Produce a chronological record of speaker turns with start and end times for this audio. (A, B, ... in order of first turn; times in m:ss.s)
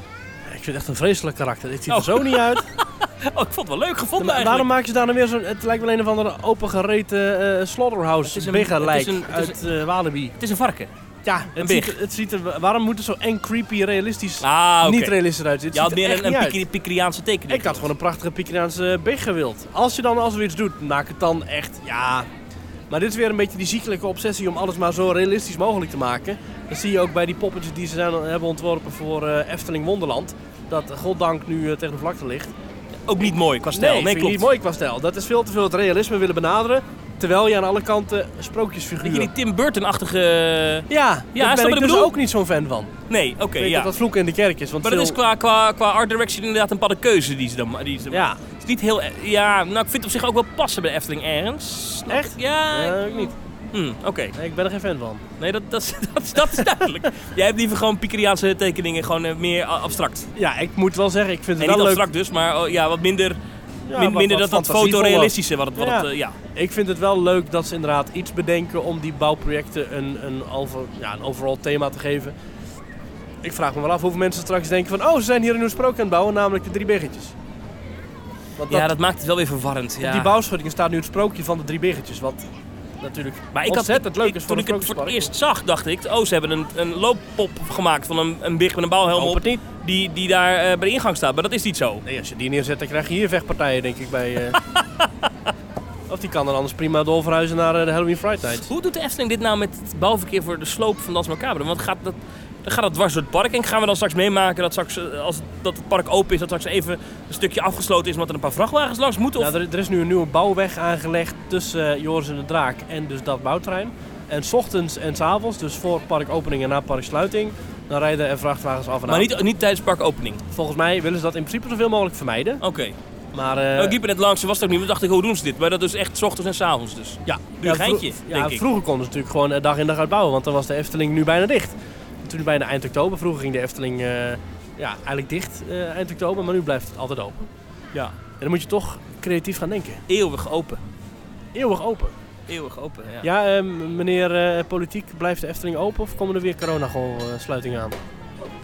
0:00.4-0:02.6 A
0:01.9-0:04.7 B
0:04.2-0:10.3 A
0:08.2-0:09.6 B
0:10.4-0:10.9 B
0:11.2-0:16.6 A
0:11.6-0:11.9 B
0:14.4-0:15.2 B
0:15.7-0:17.9 B
0:17.5-0:22.3 A
0:22.9-0:32.5 A
0:33.1-0:34.5 B
0:33.7-0:39.3 A
0:39.0-0:42.1 B
0:40.9-0:42.9 A
0:43.1-0:43.9 B
0:43.6-0:45.2 A
0:44.8-0:54.3 B
0:48.1-0:48.4 A
0:52.1-0:53.4 A
0:54.3-0:55.2 A
0:55.4-1:00.3 B
1:00.4-1:02.1 A
1:01.6-1:03.4 B
1:03.8-1:12.3 A
1:03.9-1:06.4 B
1:13.4-1:17.3 A
1:18.6-1:18.9 A
1:18.7-1:20.3 B
1:20.0-1:22.5 A
1:23.0-1:25.3 A
1:23.5-1:32.0 B
1:29.1-1:29.6 A
1:32.0-1:34.6 A
1:34.7-1:35.3 B
1:36.1-1:38.7 A
1:38.7-1:49.5 B
1:49.4-1:59.3 A
1:59.1-2:00.4 B
2:00.5-2:02.6 A
2:02.6-2:03.0 B
2:03.3-2:04.0 A
2:03.8-2:08.6 B
2:07.2-2:17.5 A
2:18.4-2:20.0 A
2:20.1-2:20.8 B
2:21.5-2:22.2 A
2:22.5-2:23.3 B
2:23.2-2:28.0 A